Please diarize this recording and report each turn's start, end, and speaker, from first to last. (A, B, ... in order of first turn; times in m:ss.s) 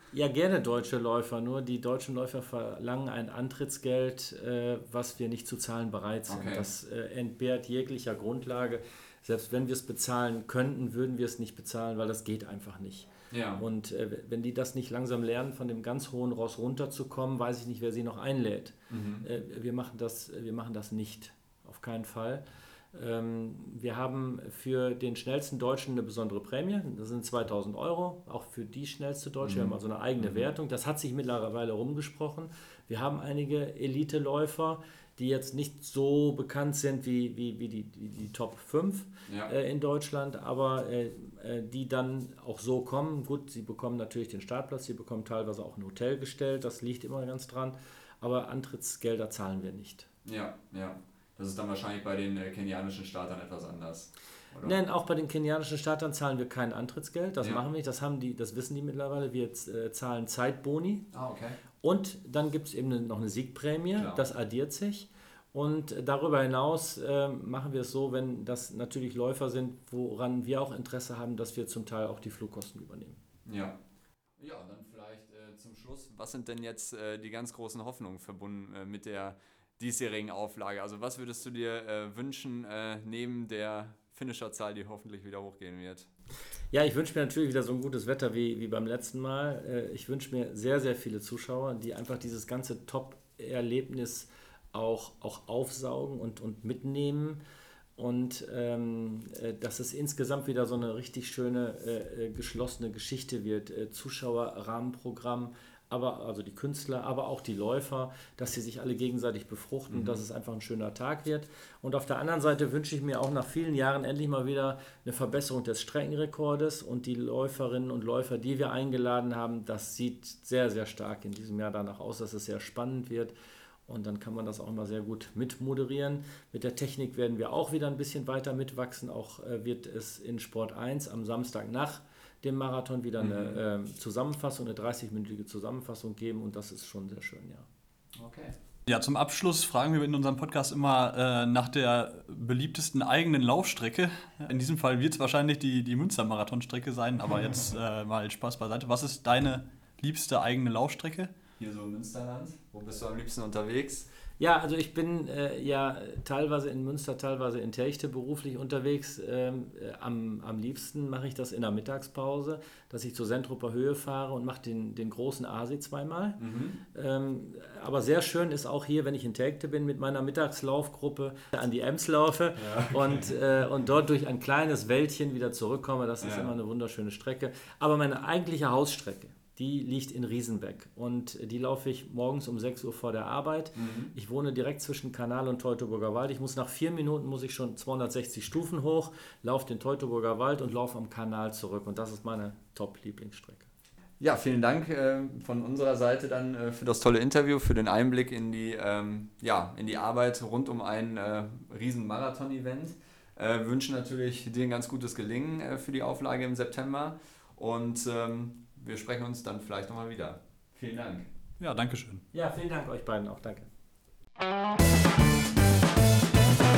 0:00.1-0:50.1 A
0:06.3-0:06.6 B
0:13.3-0:13.6 B
0:18.9-0:19.3 B
0:29.4-0:30.4 B
0:50.2-0:54.8 B
0:54.6-1:01.1 A
1:01.1-1:01.6 B
1:01.8-1:13.2 A
1:04.0-1:04.2 B
1:13.5-1:13.8 B
1:14.4-1:26.1 B
1:26.7-1:37.4 A
1:38.0-2:03.3 A
1:49.9-1:50.2 B
2:03.9-2:17.7 A
2:13.2-2:13.6 B
2:18.2-2:18.6 B
2:18.9-2:31.3 C
2:31.6-2:34.1 B
2:34.4-2:46.4 A
2:46.4-2:46.8 B
2:46.9-3:13.7 A
2:52.6-2:53.3 B
2:56.2-2:56.5 B
3:03.8-3:04.1 B
3:14.2-3:31.3 B
3:31.6-3:32.2 C
3:32.3-3:33.7 A